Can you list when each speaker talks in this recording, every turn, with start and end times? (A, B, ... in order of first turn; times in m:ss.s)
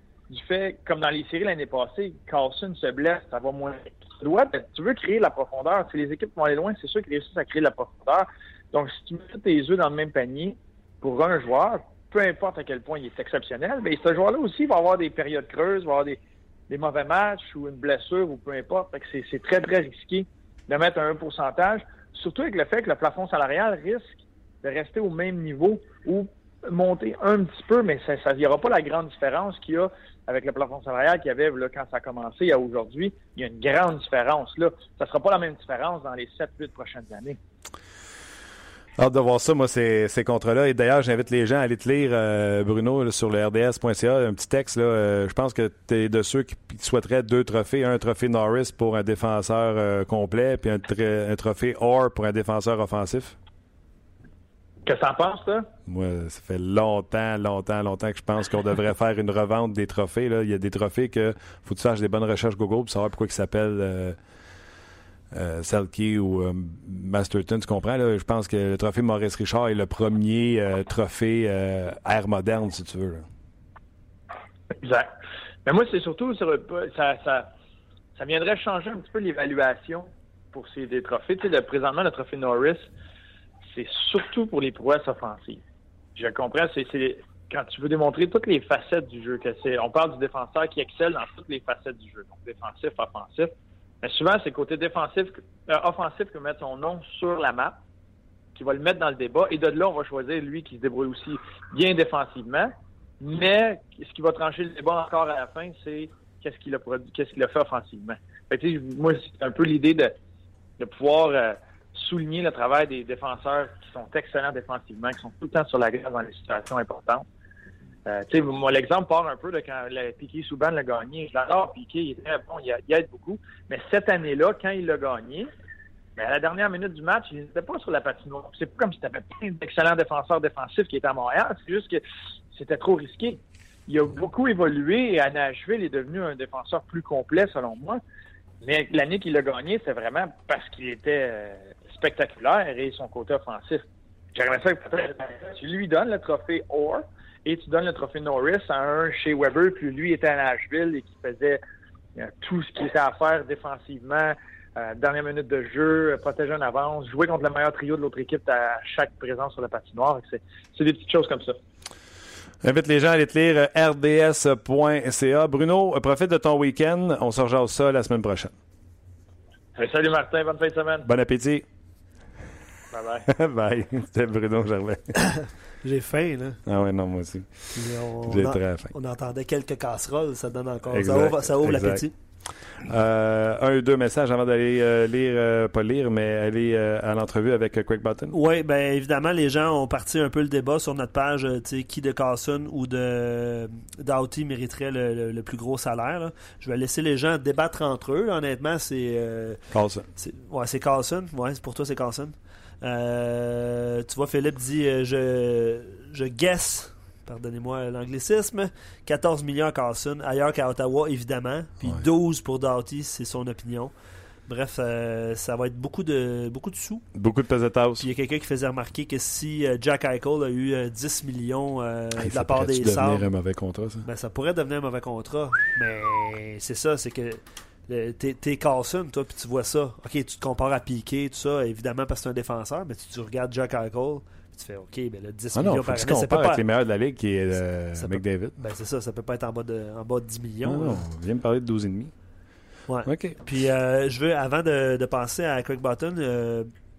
0:00.3-0:37.4 A
0:39.0-0:53.4 B
0:54.8-0:55.7 A
0:55.9-1:04.2 B
1:05.3-1:13.2 B
1:14.8-1:15.1 A
1:15.6-1:17.5 A
1:18.2-1:22.9 A
1:23.7-1:25.6 A
1:26.2-1:37.8 A
1:38.5-1:50.1 A
1:50.8-1:57.2 A
1:58.0-2:05.5 A
2:06.2-2:18.0 A
2:18.6-2:31.6 A
2:32.2-2:41.6 A
2:42.6-2:48.5 B
2:49.8-2:51.1 A
2:51.0-2:51.6 B
2:52.9-2:53.3 A
2:53.3-2:55.1 B
2:55.2-2:56.6 C
2:56.6-2:58.9 B
2:57.7-3:02.1 C
3:00.9-3:02.1 B
3:02.8-3:08.3 B
3:08.3-3:19.6 C
3:19.7-3:20.1 B
3:20.2-3:33.9 C
3:34.5-3:37.1 C
3:37.1-3:38.0 B
3:38.0-3:43.2 C
3:42.2-3:44.1 B
3:44.0-3:56.6 C
3:55.5-3:58.6 B
3:57.9-4:01.0 C
4:00.6-4:02.1 B
4:02.9-4:06.7 C
4:03.0-4:03.4 B